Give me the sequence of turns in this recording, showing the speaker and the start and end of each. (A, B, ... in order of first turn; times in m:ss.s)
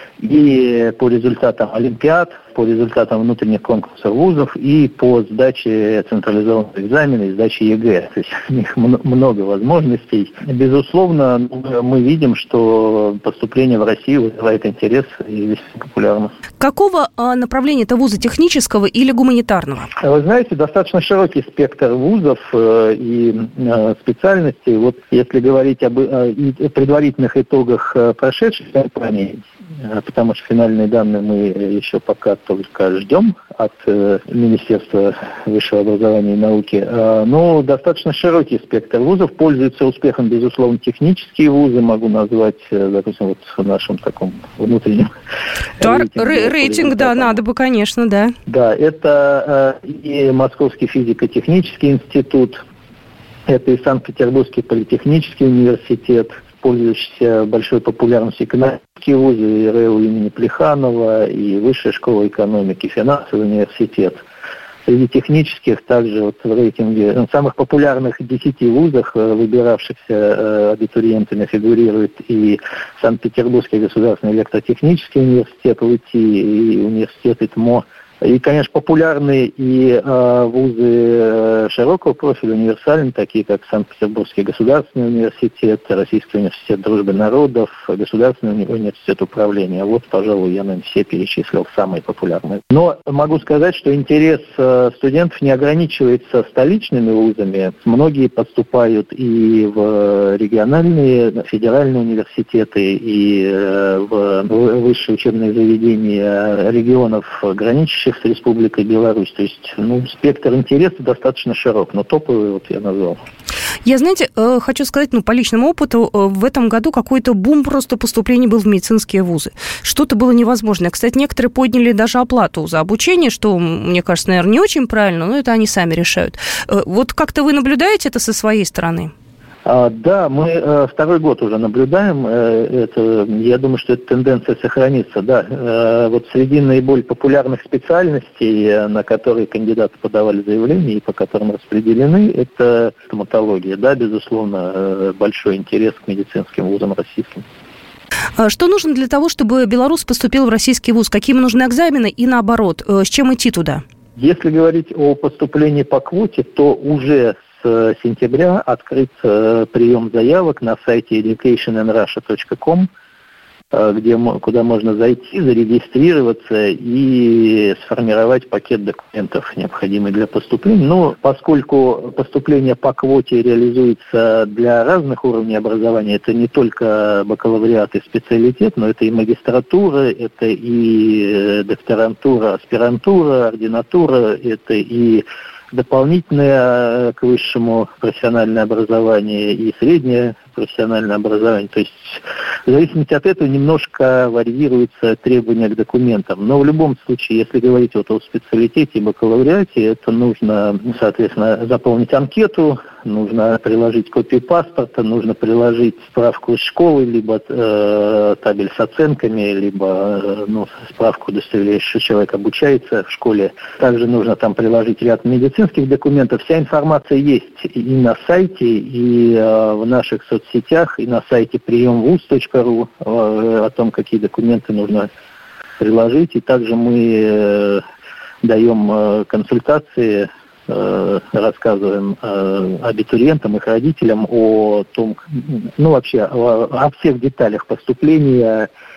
0:00.2-0:16.3 A
0:16.6-0:19.9 B
0:20.0-0:45.1 A
0:45.8-0:47.4 A
0:45.8-0:48.4 B
0:48.5-0:52.6 A
0:53.5-1:04.2 A
1:04.9-1:53.2 A
1:53.8-2:09.1 B
2:09.6-2:27.4 A
2:28.4-2:33.8 B
2:34.2-2:42.9 A
2:43.7-3:45.1 A
3:45.8-3:47.8 A
3:48.4-3:58.7 A